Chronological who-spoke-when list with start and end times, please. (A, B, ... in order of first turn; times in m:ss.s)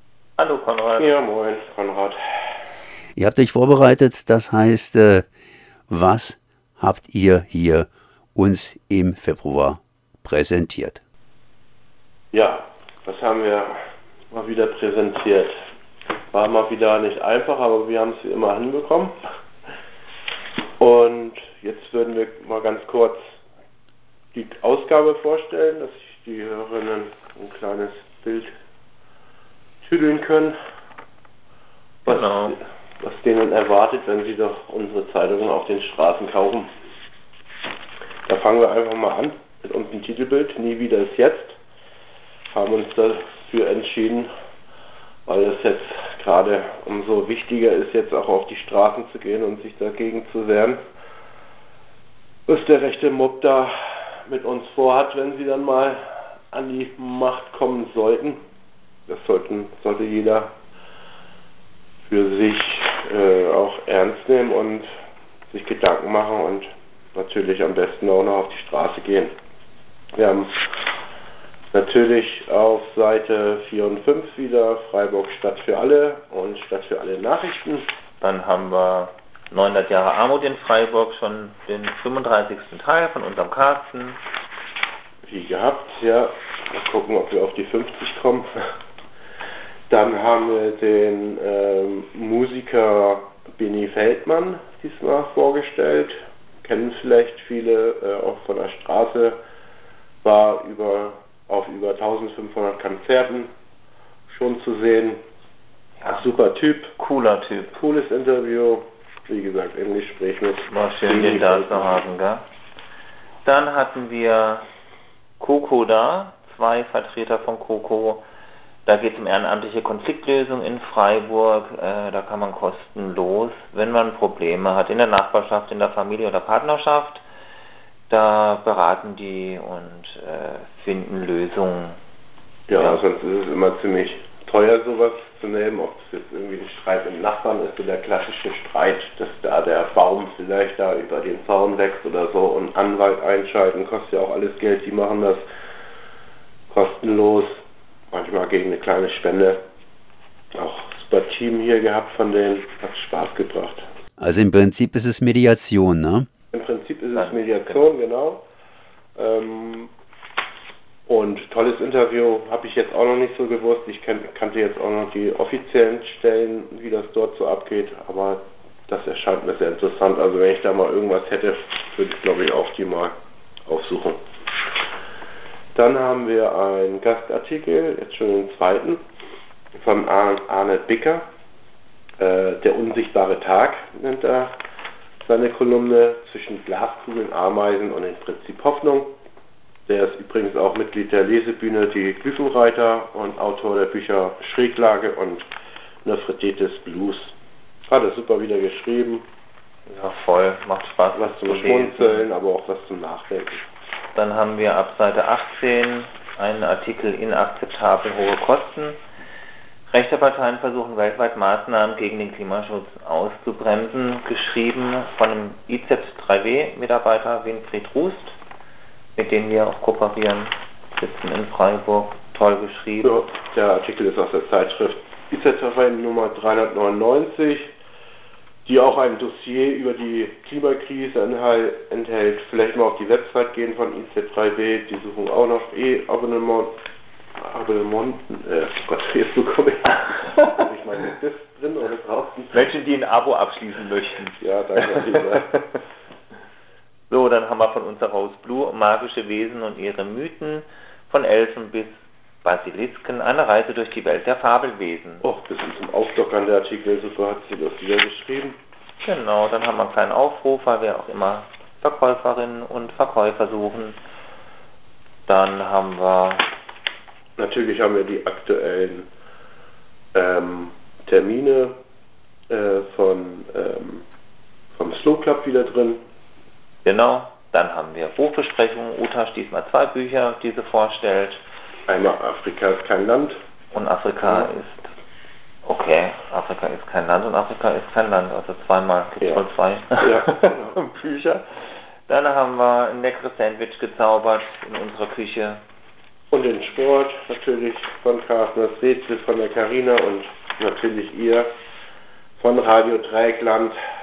0:00.4-0:01.1 A
0:01.0-0:02.2 B
0:03.2-0:05.3 C
0:05.9-0:11.0 C
0:12.3-0:13.7 B
0:14.3-0:15.6 B
0:16.3-0:19.2 B
0:20.8-0:23.4 B
0:24.3-0:28.5 B
0:29.8-0:30.6 B
0:32.1-0:32.6 A
0:32.1-0:36.7 B
0:38.3-0:41.6 B
0:42.5-0:44.3 B
0:45.3-0:50.8 B
0:52.5-0:56.0 B
0:56.5-0:58.4 B
0:59.1-1:00.5 B
1:02.0-1:04.9 B
1:05.5-1:09.4 B
1:10.2-1:10.5 B
1:11.7-1:17.9 B
1:18.2-1:24.2 A
1:25.2-1:28.6 B
1:29.9-1:39.4 B
1:40.2-1:43.5 B
1:44.3-1:45.2 B
1:46.0-1:46.3 A
1:46.1-1:46.9 B
1:47.0-1:47.8 A
1:47.7-1:52.0 B
1:50.7-1:52.4 A
1:53.4-1:54.7 A
1:55.4-1:58.2 A
1:58.9-2:07.2 A
2:08.1-2:12.0 A
2:12.7-2:25.4 B
2:12.8-2:13.0 A
2:26.7-2:29.6 B
2:30.6-2:33.9 B
2:34.2-2:36.3 C
2:36.5-2:38.4 B
2:37.2-2:37.9 A
2:39.2-2:39.9 B
2:41.1-2:54.2 B
2:55.8-2:59.0 B
2:59.8-3:01.3 B
3:02.2-3:04.6 B
3:05.2-3:09.1 B
3:09.9-3:15.5 B
3:16.0-3:17.4 B
3:17.9-3:19.2 B
3:19.9-3:22.3 A
3:21.2-3:23.6 B
3:24.2-3:29.0 A
3:29.9-3:38.4 A
3:39.2-3:43.2 A
3:43.0-3:47.7 B
3:48.6-3:56.7 B
3:57.4-4:02.7 B
4:02.5-4:05.8 A
4:04.4-4:05.5 B
4:07.1-4:15.2 A
4:15.2-4:18.6 B
4:19.0-4:24.0 A
4:25.3-4:26.5 A
4:27.4-4:29.1 B
4:30.1-4:31.7 B
4:32.5-4:34.0 B
4:34.7-4:36.0 B
4:36.8-4:41.4 A
4:41.9-4:43.4 B
4:43.7-4:44.9 A
4:44.2-4:44.5 B
4:45.6-4:55.6 A
4:50.0-4:50.8 B
4:56.3-5:01.5 B
5:02.4-5:03.8 B